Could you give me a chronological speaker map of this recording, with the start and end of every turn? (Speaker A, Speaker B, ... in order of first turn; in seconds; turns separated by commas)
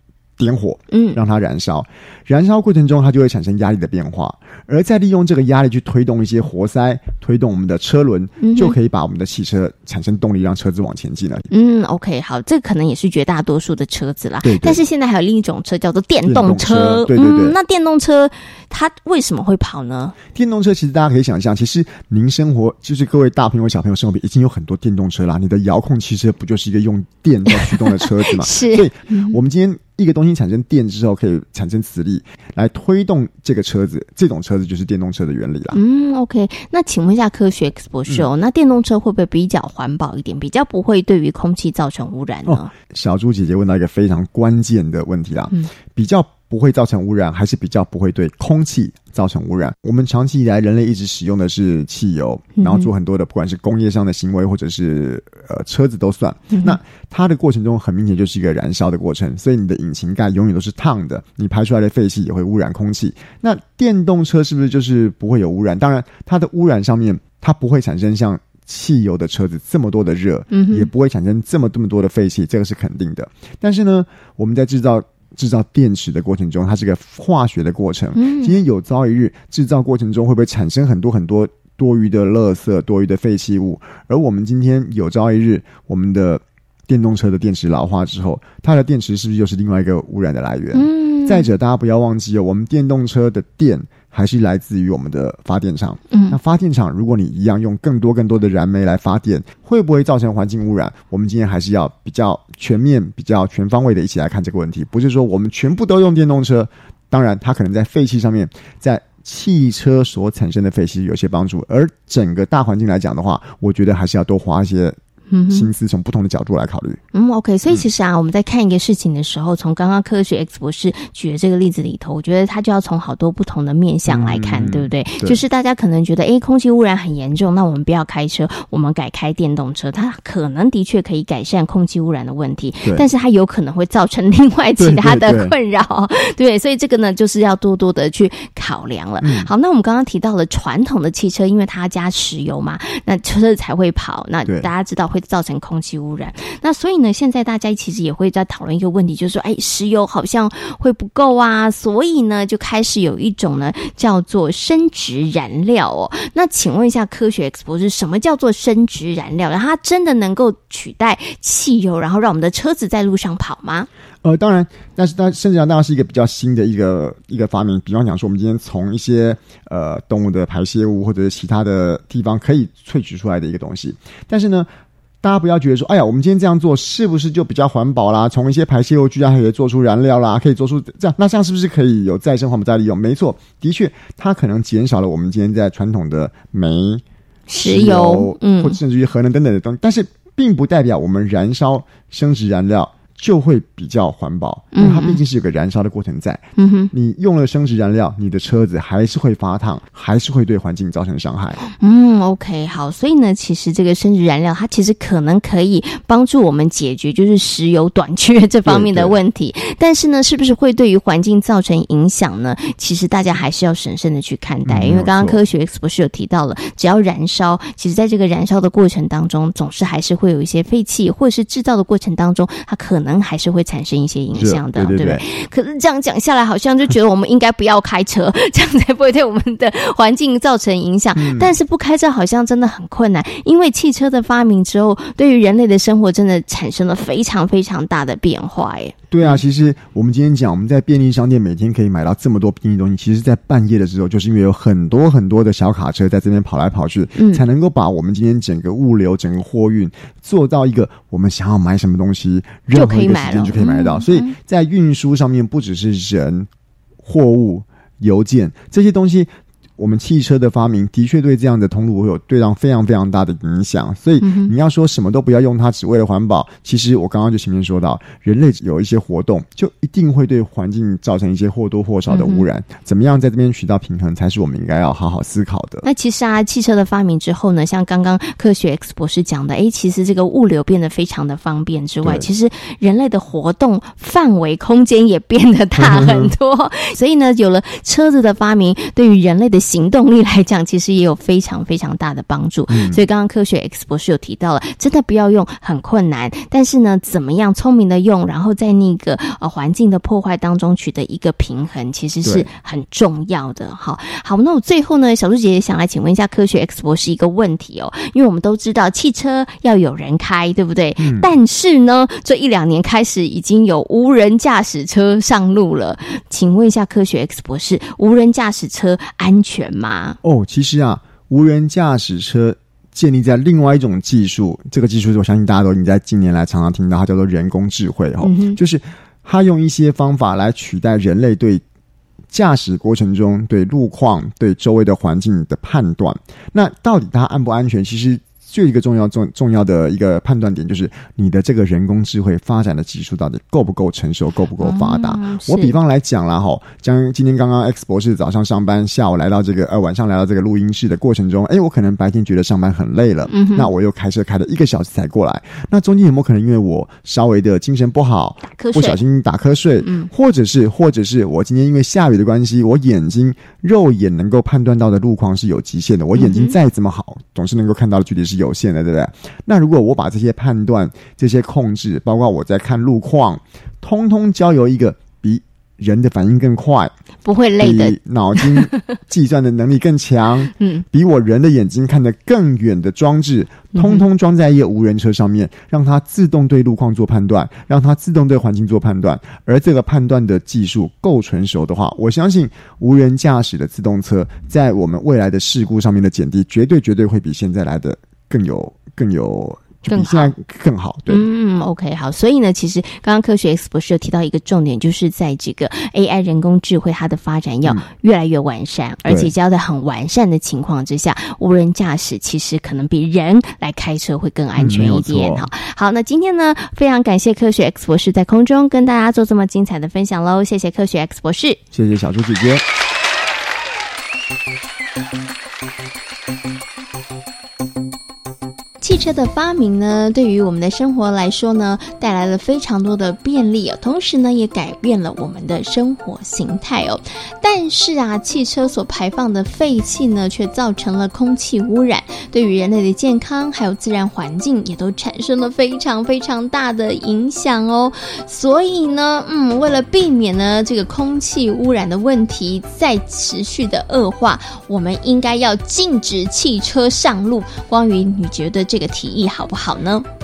Speaker A: 0.4-11.5, Speaker B: 0.9-1.2, Speaker B: 8.4-8.8, Speaker B: 11.5-20.1, Speaker A: 14.4-14.8, Speaker A: 16.2-17.6, Speaker A: 20.3-35.8, Speaker B: 27.6-29.4, Speaker B: 35.7-42.7, Speaker A: 42.5-115.0, Speaker B: 52.6-52.9, Speaker B: 56.5-56.8, Speaker B: 70.5-70.9, Speaker B: 78.1-78.6, Speaker B: 90.7-91.5, Speaker B: 96.1-96.4, Speaker B: 115.3-115.7, Speaker A: 115.5-117.0, Speaker B: 117.1-163.9, Speaker A: 124.1-125.4, Speaker A: 134.8-135.5, Speaker A: 139.2-139.5, Speaker A: 164.2-174.7, Speaker A: 175.2-201.6, Speaker B: 187.5-188.8, Speaker B: 194.7-195.2, Speaker B: 196.6-196.9, Speaker B: 201.6-239.4, Speaker A: 208.6-209.2, Speaker A: 214.6-215.4, Speaker A: 224.3-225.2, Speaker A: 231.2-231.5, Speaker A: 239.1-256.5, Speaker B: 247.2-247.4, Speaker B: 252.8-254.3, Speaker A: 257.0-275.9, Speaker B: 264.2-264.5, Speaker B: 272.1-272.4, Speaker B: 275.8-320.2, Speaker A: 285.8-286.3, Speaker A: 292.7-293.0, Speaker A: 311.0-311.3, Speaker A: 320.2-331.6, Speaker B: 328.2-328.6, Speaker A: 332.3-376.9, Speaker B: 344.6-345.7, Speaker B: 353.3-353.7, Speaker B: 358.6-359.0, Speaker B: 359.8-360.1, Speaker B: 366.1-366.5, Speaker B: 377.2-378.8, Speaker A: 377.6-401.3, Speaker B: 380.6-380.8, Speaker B: 383.7-384.1, Speaker B: 399.9-400.3, Speaker B: 401.1-421.6, Speaker A: 409.1-409.3, Speaker A: 414.6-415.5, Speaker A: 421.7-422.6, Speaker B: 428.8-460.1